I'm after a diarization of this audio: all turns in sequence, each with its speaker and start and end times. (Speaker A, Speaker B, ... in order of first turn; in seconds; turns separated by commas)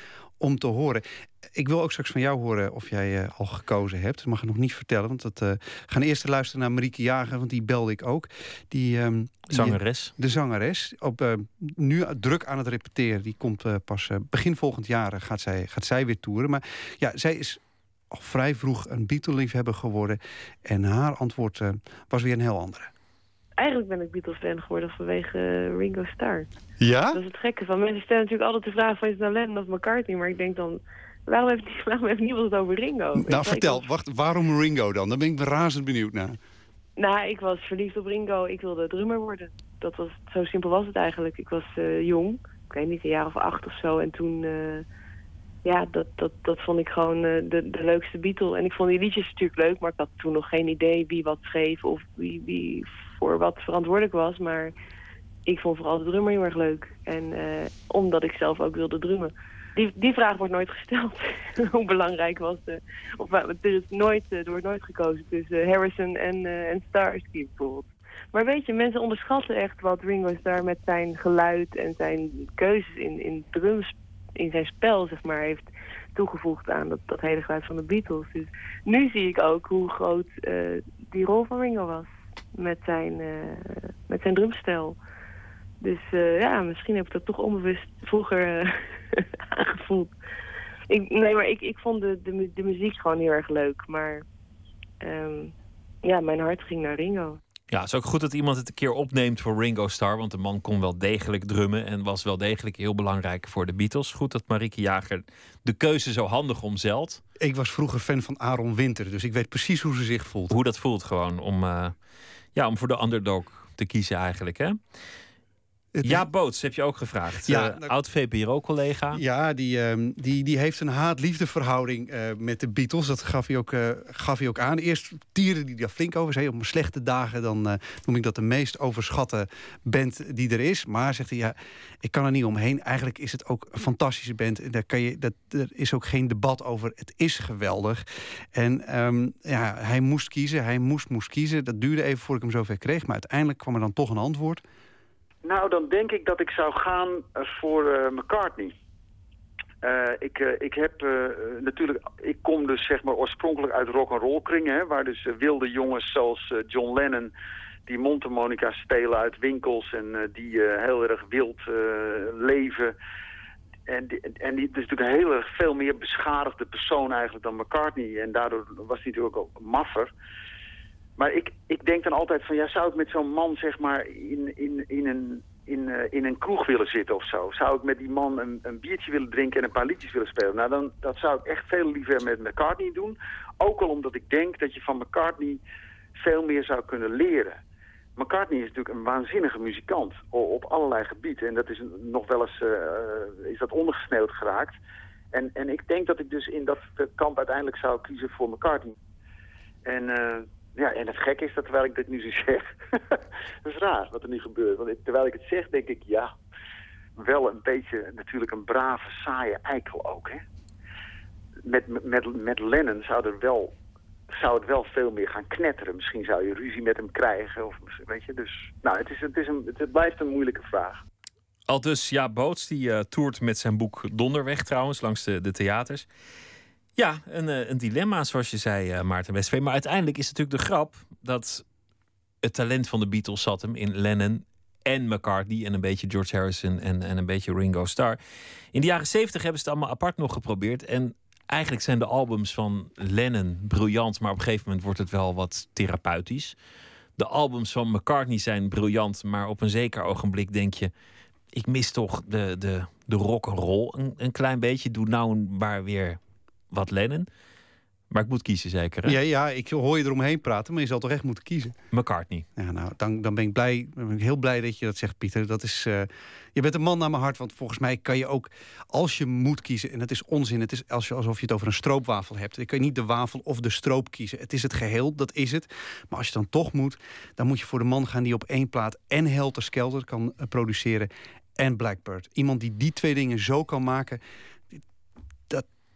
Speaker A: 0.4-1.0, Speaker A: 1.6-17.6, Speaker B: 9.5-10.1, Speaker A: 18.1-22.9, Speaker C: 23.6-26.5, Speaker A: 26.8-27.2, Speaker C: 27.1-33.9, Speaker A: 33.2-36.4, Speaker C: 37.0-44.8, Speaker C: 45.6-54.7, Speaker C: 55.5-85.0, Speaker C: 85.8-90.1, Speaker C: 90.9-94.2, Speaker C: 95.0-95.5, Speaker C: 96.0-97.4, Speaker B: 97.7-107.2, Speaker A: 107.4-110.5, Speaker B: 110.5-112.0, Speaker B: 112.5-114.8, Speaker A: 116.0-116.3, Speaker B: 116.0-119.2, Speaker A: 117.5-117.9, Speaker A: 119.1-138.0, Speaker A: 138.5-144.6, Speaker D: 145.4-148.7, Speaker D: 149.8-157.3, Speaker D: 157.9-162.9, Speaker D: 163.9-170.1, Speaker D: 171.2-185.6, Speaker D: 186.2-187.6, Speaker D: 188.2-194.8, Speaker D: 195.3-198.9, Speaker D: 199.9-202.7, Speaker D: 203.7-206.3, Speaker D: 207.2-210.4, Speaker D: 211.7-213.7, Speaker D: 214.3-221.0, Speaker B: 221.7-226.1, Speaker B: 227.0-231.6, Speaker B: 232.4-238.2, Speaker B: 238.7-246.6, Speaker B: 247.2-250.9, Speaker B: 251.5-256.2, Speaker B: 256.7-257.3, Speaker B: 258.1-259.2, Speaker A: 259.1-261.7, Speaker B: 261.9-262.4, Speaker A: 262.6-284.2